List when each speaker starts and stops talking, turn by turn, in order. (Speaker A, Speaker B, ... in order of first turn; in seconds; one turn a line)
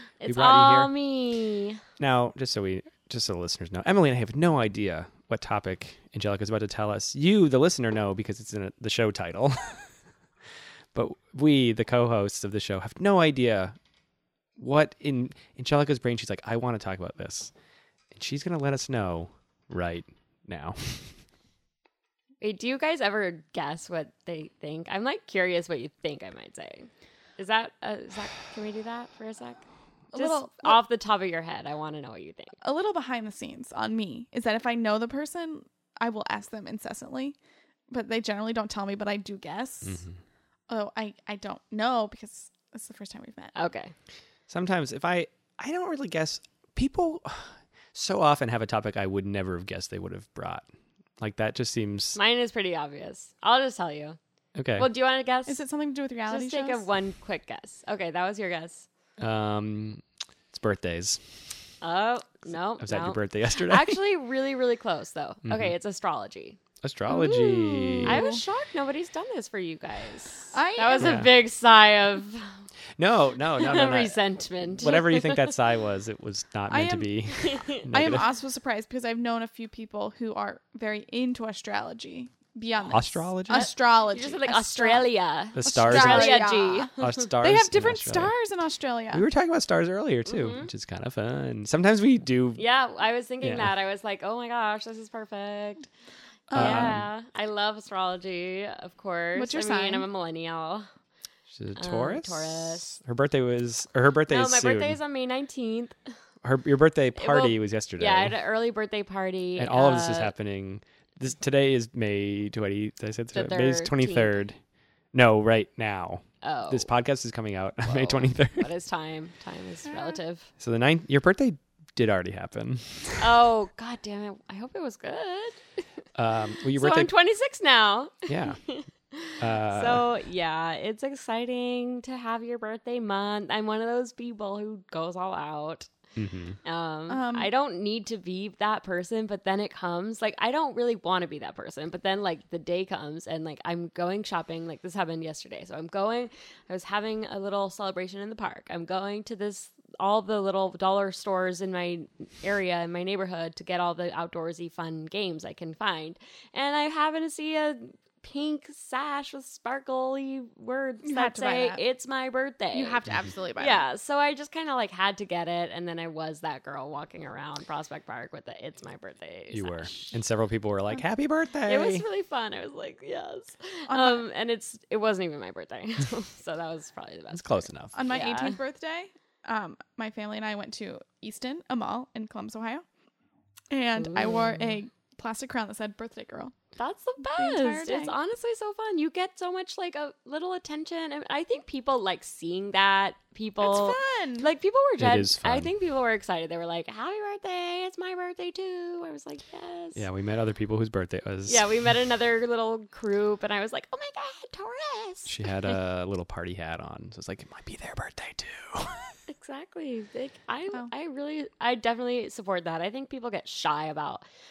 Speaker A: 0.2-1.8
Speaker B: 0.2-0.9
Speaker B: 2.0-9.9
Speaker B: 10.9-13.7
Speaker B: 14.6-17.5
Speaker B: 18.1-21.2
Speaker A: 22.4-32.6
Speaker C: 30.1-30.8
Speaker C: 32.6-37.4
Speaker C: 37.9-40.0
Speaker B: 39.9-40.2
Speaker C: 40.7-43.5
Speaker A: 43.5-43.9
Speaker B: 44.5-50.6
Speaker B: 51.2-52.2
Speaker A: 52.1-54.2
Speaker B: 54.5-54.9
Speaker A: 54.8-55.6
Speaker C: 55.5-56.8
Speaker A: 56.3-58.9
Speaker B: 59.2-61.4
Speaker A: 61.8-72.5
Speaker B: 62.8-64.0
Speaker B: 65.4-65.7
Speaker B: 66.8-68.2
Speaker C: 68.0-68.4
Speaker C: 70.5-71.2
Speaker B: 71.0-71.3
Speaker B: 73.0-78.2
Speaker A: 73.5-75.6
Speaker C: 76.7-77.3
Speaker A: 77.3-77.9
Speaker C: 77.9-85.1
Speaker B: 82.9-83.7
Speaker A: 83.5-87.2
Speaker B: 85.5-88.3
Speaker C: 85.7-89.2
Speaker B: 89.1-92.6
Speaker A: 90.3-90.7
Speaker A: 92.6-95.9
Speaker B: 93.4-93.7
Speaker C: 96.5-97.0
Speaker B: 96.5-97.0
Speaker A: 96.5-100.9
Speaker C: 99.3-100.1
Speaker B: 101.5-105.0
Speaker A: 101.8-102.9
Speaker A: 104.3-106.0
Speaker B: 106.4-108.3
Speaker A: 107.1-110.3
Speaker B: 109.6-114.6
Speaker A: 113.3-114.4
Speaker B: 115.1-118.7
Speaker A: 116.4-116.9
Speaker A: 117.8-120.5
Speaker C: 119.9-120.2
Speaker B: 120.6-123.3
Speaker A: 123.2-125.6
Speaker B: 126.1-127.1
Speaker A: 126.7-135.9
Speaker B: 128.3-128.6
Speaker B: 129.4-130.1
Speaker B: 136.2-136.6
Speaker A: 136.6-170.2
Speaker C: 137.1-137.5
Speaker C: 161.0-161.8
Speaker C: 162.7-163.9
Speaker B: 169.5-172.0
Speaker A: 171.7-178.6
Speaker C: 173.9-174.2
Speaker B: 177.3-177.9
Speaker C: 177.9-182.8
Speaker C: 183.7-186.5
Speaker A: 184.0-184.7
Speaker A: 186.8-200.0
Speaker C: 187.3-188.1
Speaker C: 193.6-194.5
Speaker B: 195.0-195.7
Speaker B: 199.9-201.6
Speaker A: 201.5-205.5
Speaker B: 205.2-209.1
Speaker A: 209.3-214.2